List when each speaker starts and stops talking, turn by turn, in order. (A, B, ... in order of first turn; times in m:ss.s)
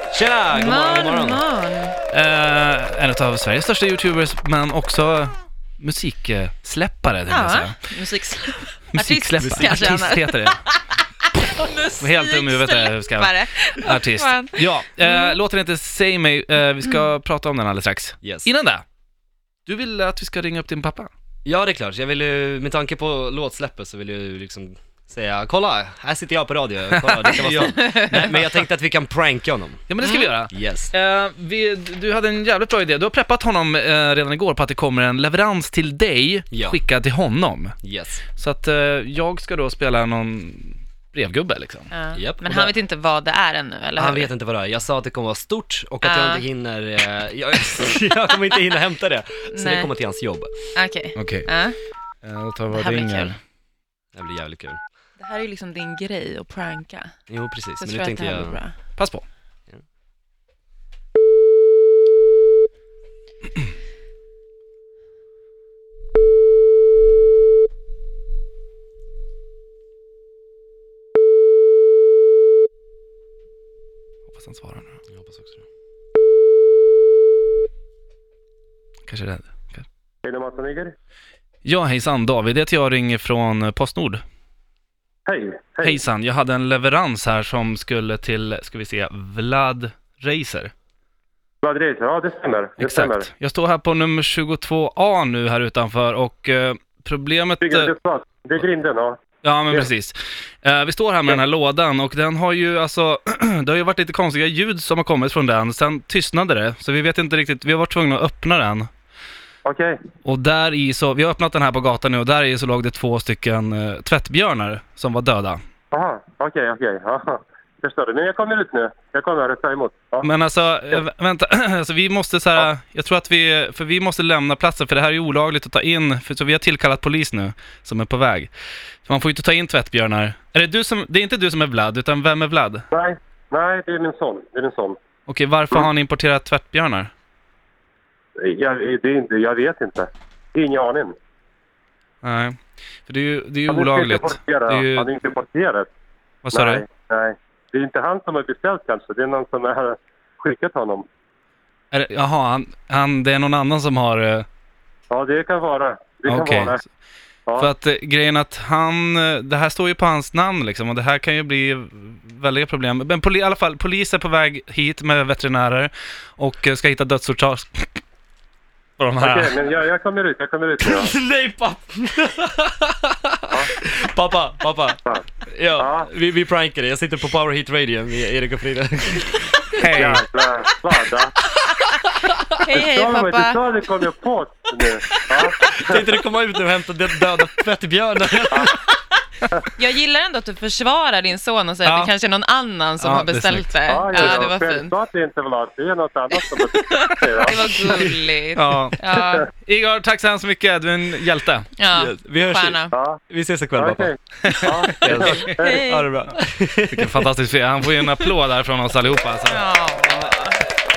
0:00.1-0:01.4 A
0:00.5-0:02.0 B
0:02.1-0:07.8 C
0:07.3-0:15.4 B
0:08.9-0:10.6 C
0:09.4-0:09.8 A
0:12.0-0:18.8 C
0:18.2-0:18.5 A
0:19.7-0:21.1 C
0:21.4-0:29.9 A
0:27.1-0:28.4 C
0:29.9-0:37.8 C
0:30.0-0:30.3 B
0:30.5-0:30.9 A
0:36.5-0:36.8 A
0:37.8-0:38.2 A
0:38.4-0:41.9 C
0:41.9-0:44.3 B
0:42.2-0:42.7 A
0:44.0-0:50.5 A
0:46.0-0:46.4 B
0:49.5-0:49.9 B
0:50.8-0:51.8 B
0:51.2-0:51.5 C
0:52.2-0:53.4 C
0:52.7-0:53.4 B
0:54.1-0:54.8 A
0:55.2-0:57.1 B
0:57.3-0:58.6 A
0:57.8-0:58.8 B
0:59.0-0:59.2 C
1:14.3-1:15.0 C
1:15.1-1:15.6 A
1:19.1-1:19.8 C
1:20.2-1:20.9 D
1:21.6-1:24.2 C
1:25.3-1:26.0 D
1:25.8-1:30.7 C
1:31.6-1:33.3 D
1:32.8-1:37.9 C
1:37.6-1:39.2 D
1:39.4-1:48.9 C
1:49.6-1:50.0 D
1:50.2-1:55.6 C
1:55.9-2:00.3 D
2:00.2-2:08.5 C
2:09.0-2:12.8 C
2:12.9-2:15.0 D
2:15.3-2:17.1 C
2:18.4-2:21.1 D
2:22.2-2:25.1 C
2:23.7-2:25.9 D
2:26.4-2:26.8 C
2:26.5-2:31.1 D
2:31.9-2:34.5 C
2:35.1-2:36.8 D
2:36.3-2:36.8 C
2:37.6-2:48.0 C
2:49.0-2:49.5 C
2:49.2-2:51.1 D
2:50.8-2:59.7 A
2:55.8-2:56.1 D
2:59.8-3:00.2 C
3:00.0-3:01.3 D
3:01.7-3:02.5 A
3:02.6-3:03.6 B
3:02.7-3:06.0 D
3:05.7-3:08.8 A
3:09.8-3:14.9 B
3:11.8-3:12.1 C
3:13.0-3:14.4 C
3:13.9-3:17.6 D
3:17.0-3:19.5 B
3:18.6-3:19.0 C
3:19.5-3:21.7 C
3:21.8-3:22.9 B
3:21.9-3:24.1 A
3:22.9-3:23.2 D
3:23.8-3:25.8 D
3:24.4-3:25.6 C
3:24.6-3:27.3 A
3:25.5-3:26.1 B
3:26.9-3:29.6 C
3:29.5-3:30.6 B